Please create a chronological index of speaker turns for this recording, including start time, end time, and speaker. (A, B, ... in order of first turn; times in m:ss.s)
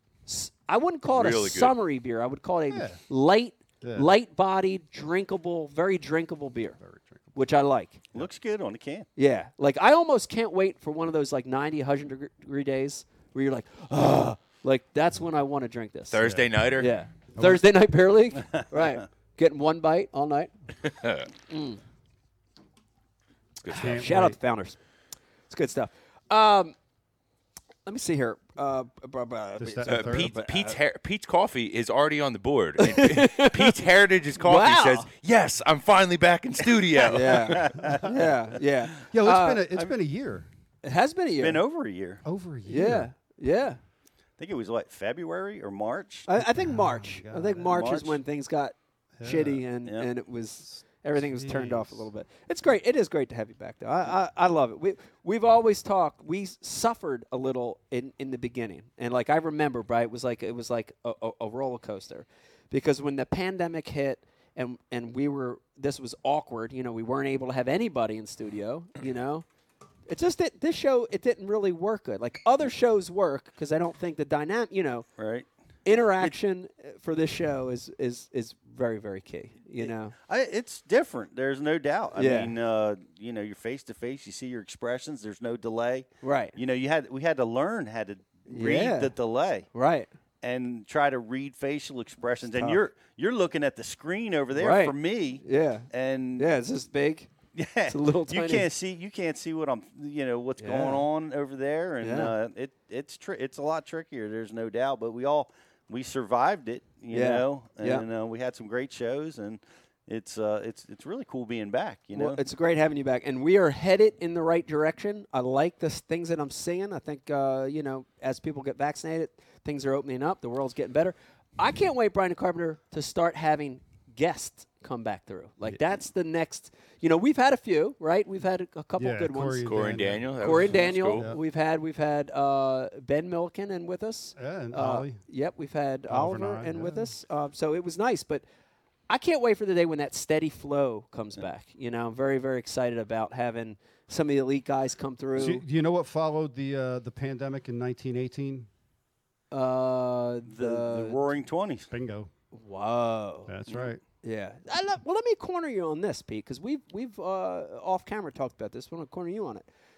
0:00.3-0:06.8 A
0:01.1-0:01.8 B
0:02.7-0:03.0 C
0:03.8-0:04.1 C
0:06.8-0:07.3 C
0:07.3-0:08.0 A
0:08.1-0:09.1 D
0:09.2-0:16.2 A
0:16.1-0:16.9 B
0:16.2-0:17.6 C
0:16.8-0:20.5 A
0:20.8-0:21.3 B
0:21.5-0:21.8 A
0:23.6-0:24.1 B
0:23.7-0:24.4 C
0:23.7-0:24.8 A
0:25.5-0:26.8 A
0:27.8-0:30.8 A
0:29.6-0:30.4 C
0:29.9-0:37.6 B
0:32.8-0:33.7 A
0:34.4-0:35.1 A
0:37.1-0:39.6 A
0:37.2-0:38.6 D
0:39.1-0:40.5 C
0:40.8-0:41.6 A
0:41.4-0:42.2 D
0:42.2-0:43.1 C
0:42.7-0:43.8 A
0:44.4-0:46.3 D
0:46.3-1:09.4 A
0:46.3-0:47.7 C
0:47.6-0:48.2 D
0:49.2-0:49.6 C
0:51.0-0:52.1 C
1:10.1-1:15.1 A
1:15.2-1:15.5 D
1:15.8-1:20.1 A
1:19.7-1:29.7 D
1:22.2-1:22.5 A
1:26.2-1:26.5 A
1:28.5-1:29.1 A
1:29.7-1:30.1 A
1:30.4-1:36.5 D
1:32.5-1:32.8 A
1:34.5-1:37.3 A
1:37.5-1:52.4 D
1:37.8-1:38.7 A
1:40.6-1:41.1 A
1:42.0-1:42.3 A
1:47.1-1:48.0 A
1:52.1-2:09.8 A
2:05.7-2:06.0 C
2:09.0-2:11.4 C
2:09.6-2:11.3 B
2:10.4-2:18.4 A
2:14.4-2:15.2 C
2:16.1-2:17.1 C
2:19.1-2:25.6 A
2:25.4-2:28.7 C
2:29.5-2:31.2 A
2:30.4-2:31.9 D
2:31.9-2:32.3 C
2:32.5-2:33.5 A
2:33.5-2:34.0 C
2:34.2-2:39.7 A